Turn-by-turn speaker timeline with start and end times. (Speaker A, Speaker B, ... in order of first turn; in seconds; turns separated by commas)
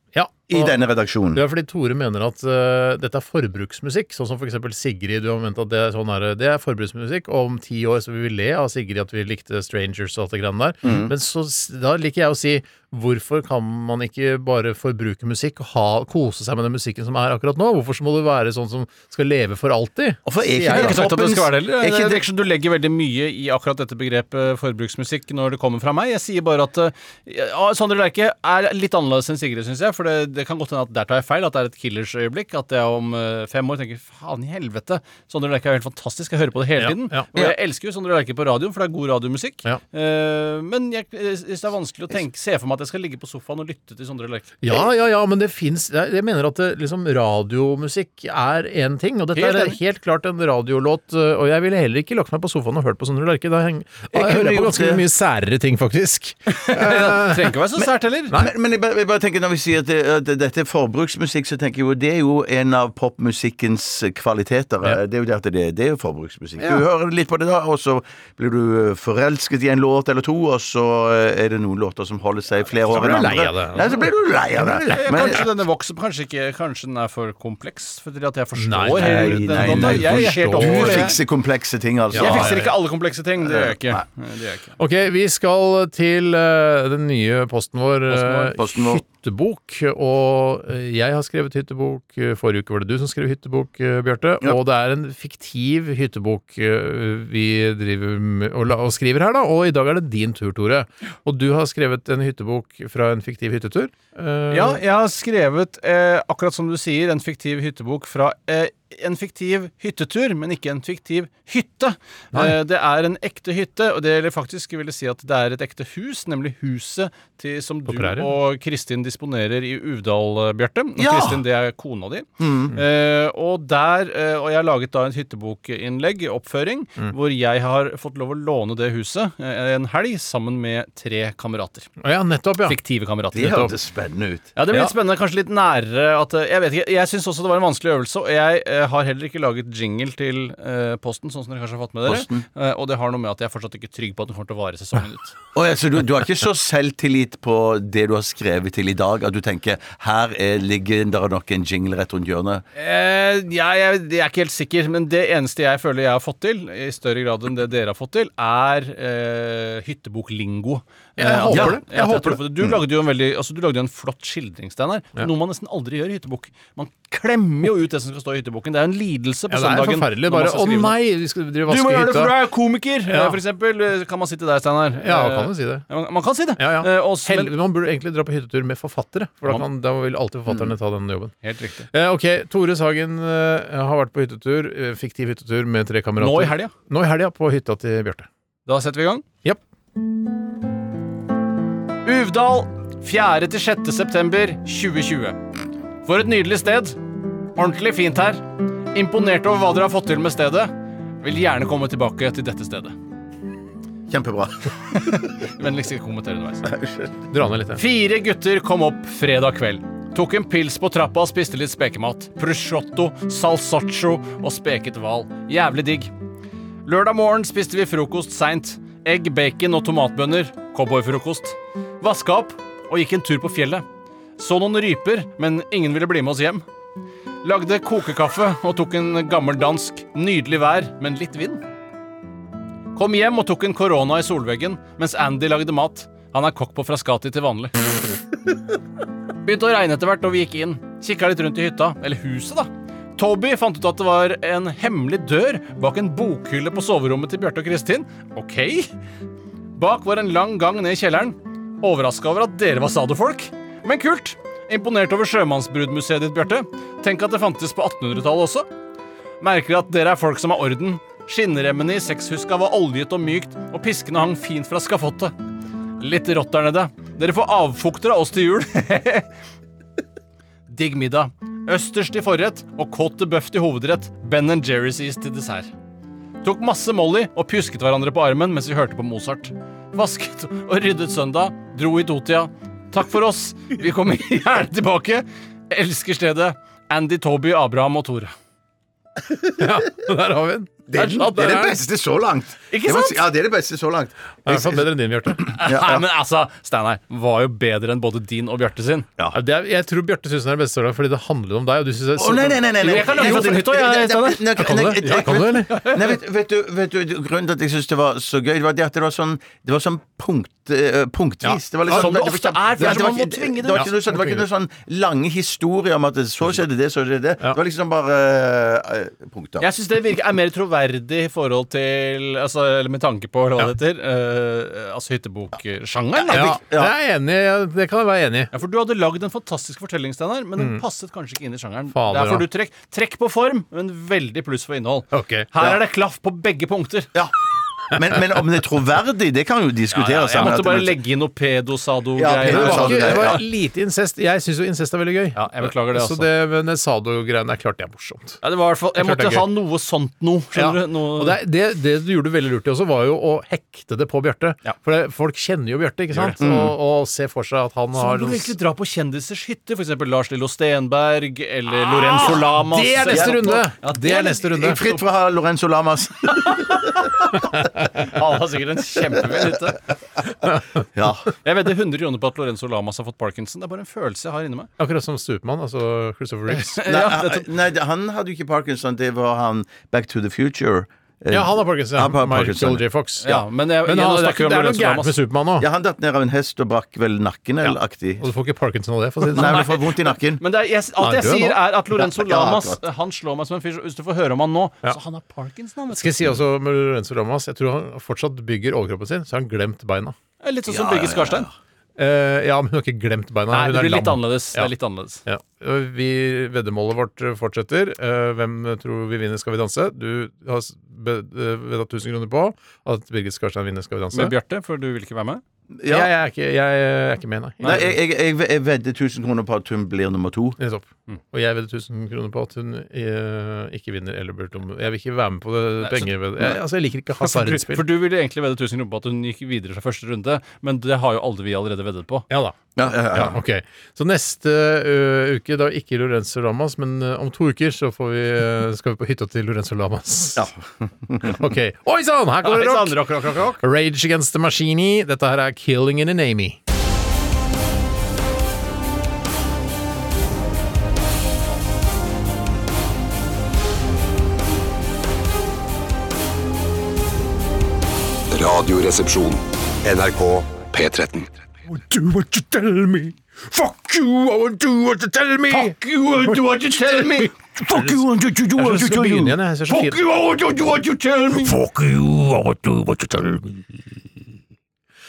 Speaker A: 0.1-0.8, Speaker B: 0.5-1.4, Speaker A: 1.3-21.1, Speaker B: 10.8-11.1, Speaker B: 20.3-22.2, Speaker C: 20.7-44.6, Speaker A: 36.8-37.2, Speaker A: 44.6-57.6, Speaker C: 49.4-49.8, Speaker B: 54.1-55.0, Speaker C: 56.5-58.3, Speaker B: 58.3-75.5, Speaker A: 72.9-75.4, Speaker C: 74.9-81.2, Speaker A: 78.6-81.2, Speaker B: 78.9-82.6, Speaker A: 82.1-82.7, Speaker C: 82.1-84.8, Speaker B: 83.4-84.0, Speaker A: 84.8-104.8, Speaker B: 88.1-89.0, Speaker C: 104.5-131.9, Speaker A: 117.9-118.3, Speaker B: 121.0-121.4, Speaker B: 122.4-122.8, Speaker A: 132.0-132.8, Speaker C: 132.7-133.7, Speaker B: 133.3-134.5, Speaker C: 134.6-145.3, Speaker B: 142.1-142.5, Speaker B: 145.6-152.7, Speaker C: 152.8-171.0, Speaker A: 161.2-162.4, Speaker B: 161.5-161.8, Speaker A: 169.5-172.4, Speaker C: 171.7-177.5, Speaker A: 173.1-173.4, Speaker A: 175.0-175.9, Speaker A: 176.6-181.3, Speaker C: 181.4-181.9, Speaker A: 181.9-188.3, Speaker C: 186.2-186.7, Speaker C: 188.7-189.3, Speaker C: 192.1-195.4, Speaker C: 196.1-197.0, Speaker C: 197.6-203.0, Speaker B: 204.1-205.2, Speaker C: 205.0-206.7, Speaker B: 206.6-207.1, Speaker A: 207.3-207.8, Speaker C: 207.8-216.1, Speaker C: 216.8-223.8, Speaker C: 224.4-226.7, Speaker C: 227.4-231.6, Speaker C: 232.9-237.7, Speaker C: 239.4-248.9, Speaker C: 249.8-258.7, Speaker C: 259.4-265.4, Speaker C: 266.0-269.3, Speaker C: 270.7-275.7, Speaker C: 276.4-288.3, Speaker A: 289.5-291.8, Speaker B: 290.9-296.0, Speaker C: 290.9-291.7, Speaker C: 292.7-293.2, Speaker A: 294.4-295.5, Speaker C: 295.5-299.1, Speaker A: 299.3-303.4, Speaker B: 302.2-319.7, Speaker C: 302.8-306.2, Speaker A: 304.6-305.8, Speaker A: 311.4-312.2, Speaker C: 311.9-313.9, Speaker A: 313.7-314.4, Speaker C: 319.6-326.6, Speaker B: 326.3-326.9, Speaker A: 326.3-328.5, Speaker C: 328.5-337.1, Speaker A: 331.9-332.5, Speaker A: 335.1-335.5, Speaker B: 337.9-341.0, Speaker C: 339.9-343.3, Speaker B: 342.2-343.4, Speaker A: 342.5-348.4, Speaker C: 345.4-346.3, Speaker C: 348.4-351.4, Speaker A: 348.9-349.5, Speaker A: 350.6-358.6, Speaker C: 356.1-356.4, Speaker B: 356.4-356.8, Speaker C: 357.9-364.5, Speaker A: 361.8-365.0, Speaker B: 363.1-363.7, Speaker B: 364.4-367.1, Speaker C: 366.3-369.8, Speaker B: 370.9-371.3, Speaker C: 371.4-374.7, Speaker A: 374.8-376.8, Speaker C: 376.5-377.5, Speaker B: 376.9-382.8, Speaker A: 381.3-385.7, Speaker C: 383.2-385.1, Speaker B: 385.6-388.3, Speaker A: 387.6-389.7, Speaker B: 389.3-390.4, Speaker C: 389.4-389.6, Speaker C: 390.4-396.3, Speaker A: 391.0-391.6, Speaker B: 392.0-392.8, Speaker A: 396.0-400.1, Speaker C: 400.4-401.5, Speaker B: 400.7-401.5, Speaker A: 402.0-404.7, Speaker C: 403.5-405.2, Speaker A: 405.2-414.3, Speaker C: 414.1-415.4, Speaker B: 415.8-416.1, Speaker A: 415.9-417.9, Speaker B: 417.7-420.6, Speaker A: 420.6-427.9, Speaker C: 425.8-426.5, Speaker C: 427.2-432.3, Speaker A: 432.3-440.5, Speaker B: 432.8-433.4, Speaker B: 440.4-441.5, Speaker A: 441.2-446.6, Speaker C: 442.4-443.6, Speaker D: 458.3-461.3, Speaker A: 461.7-470.8, Speaker B: 465.5-471.6, Speaker A: 471.3-473.8